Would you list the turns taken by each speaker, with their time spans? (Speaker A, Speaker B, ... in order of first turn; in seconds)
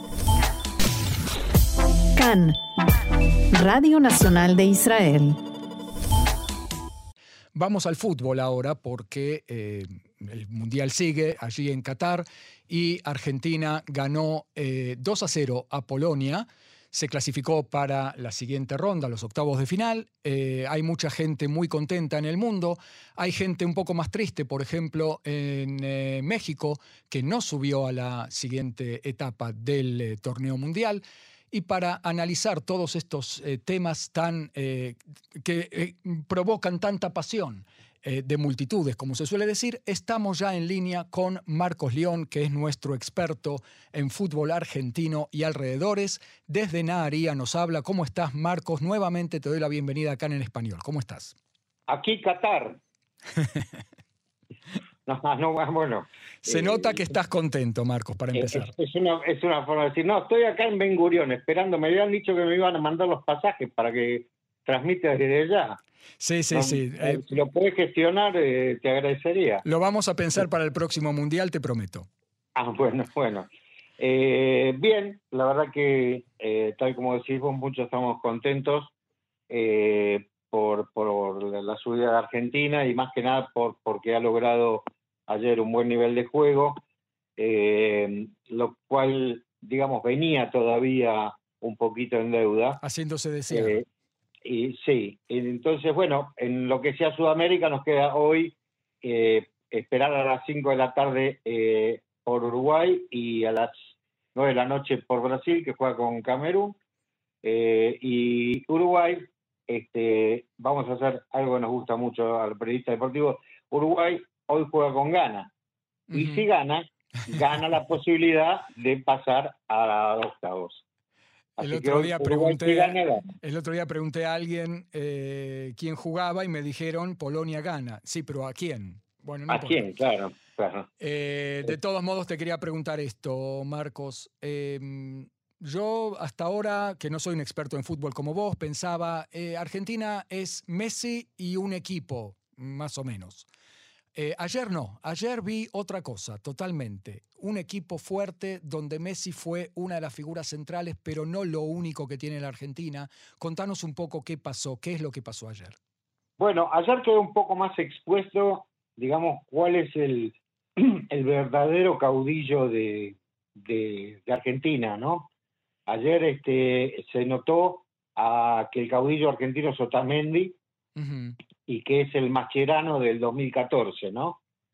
Speaker A: 2.2-2.6, 3.5-5.4
Speaker B: 7.5-51.4, 53.4-53.8, 56.4-58.7, 66.2-67.4, 69.7-72.1, 92.8-93.8, 116.1-116.5, 121.6-129.9, 131.0-143.5, 144.2-155.8, 171.0-171.4
Speaker C: 51.9-52.8, 55.1-57.1, 58.3-65.8, 66.5-69.7, 72.5-78.9, 79.5-86.8, 87.4-92.8, 93.5-93.8, 94.5-106.8, 107.4-115.5, 116.1-120.8, 121.6-123.3, 129.5-130.9, 156.4-165.3, 165.9-170.6, 171.7-174.4